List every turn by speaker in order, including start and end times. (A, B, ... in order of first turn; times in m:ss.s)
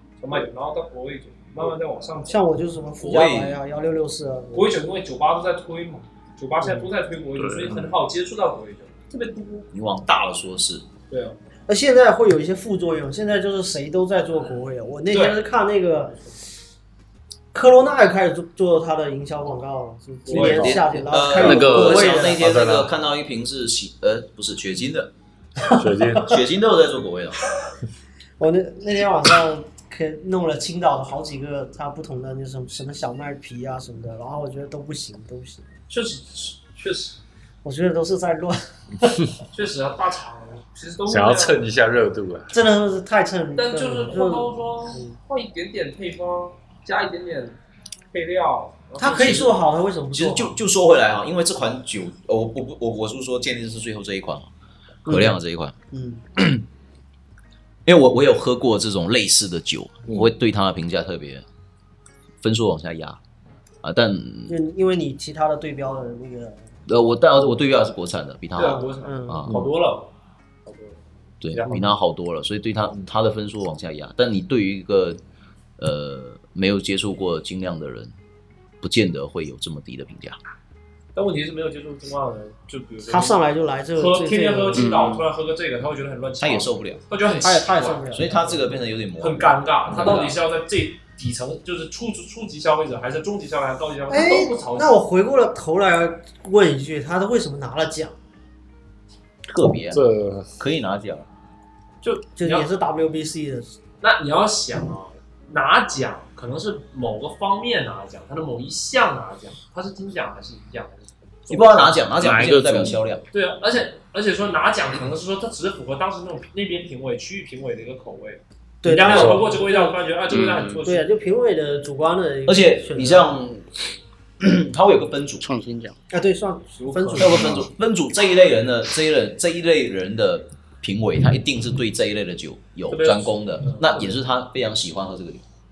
0:00.2-0:02.4 A
0:02.3-0:04.7 B
0:03.0-0:03.6 C
0:04.5-0:09.7 A
0:06.6-0:06.9 B
0:07.4-0:07.9 D
0:09.7-0:10.8 C
0:11.1-0:11.4 A
0:11.7-0:16.2 B
0:15.1-0:15.4 A
0:17.5-0:22.5 B
0:20.2-0:21.0 A
0:20.4-0:25.1 C
0:21.3-0:22.2 D
0:22.3-0:22.9 E
0:25.7-0:26.4 E
0:25.9-0:26.3 B
0:26.2-0:27.4 C
0:28.4-0:35.6 B
0:35.9-0:37.2 A
0:37.6-0:39.3 B
0:39.5-0:41.6 A
0:41.1-0:42.6 E
0:42.5-0:45.2 B
0:43.6-0:47.6 A
0:48.1-0:49.6 A
0:49.0-0:50.5 B
0:49.1-0:49.5 C
0:50.1-0:54.5 C
0:55.0-0:55.7 C
0:55.1-0:55.4 B
0:55.9-0:56.2 B
0:56.4-0:56.6 C
0:57.8-1:01.4 C
1:02.4-1:03.2 C
1:03.8-1:04.6 C
1:04.5-1:06.6 B
1:06.9-1:09.5 C
1:08.5-1:10.1 A
1:09.0-1:09.5 B
1:10.6-1:11.0 A
1:11.4-1:15.2 C
1:11.5-1:11.9 A
1:15.8-1:18.1 C
1:18.8-1:20.4 C
1:21.1-1:23.4 A
1:23.0-1:25.0 B
1:24.0-1:28.3 A
1:24.8-1:25.2 D
1:26.4-1:27.0 C
1:27.4-1:28.6 B
1:28.1-1:30.3 C
1:29.2-1:34.9 A
1:34.1-1:38.2 B
1:39.4-1:40.0 C
1:39.9-1:40.5 E
1:40.6-1:41.3 C
1:42.0-1:42.7 A
1:42.4-1:43.8 B
1:44.0-1:52.3 A
1:51.5-1:53.2 C
1:52.2-1:53.0 D
1:53.3-2:01.1 A
1:58.8-2:00.0 B
1:59.0-1:59.5 E
2:00.3-2:00.8 D
2:00.8-2:03.3 B
2:02.4-2:03.8 C
2:04.4-2:05.4 C
2:05.4-2:06.0 D
2:06.1-2:07.7 B
2:06.8-2:07.6 A
2:07.1-2:15.4 C
2:12.9-2:14.2 A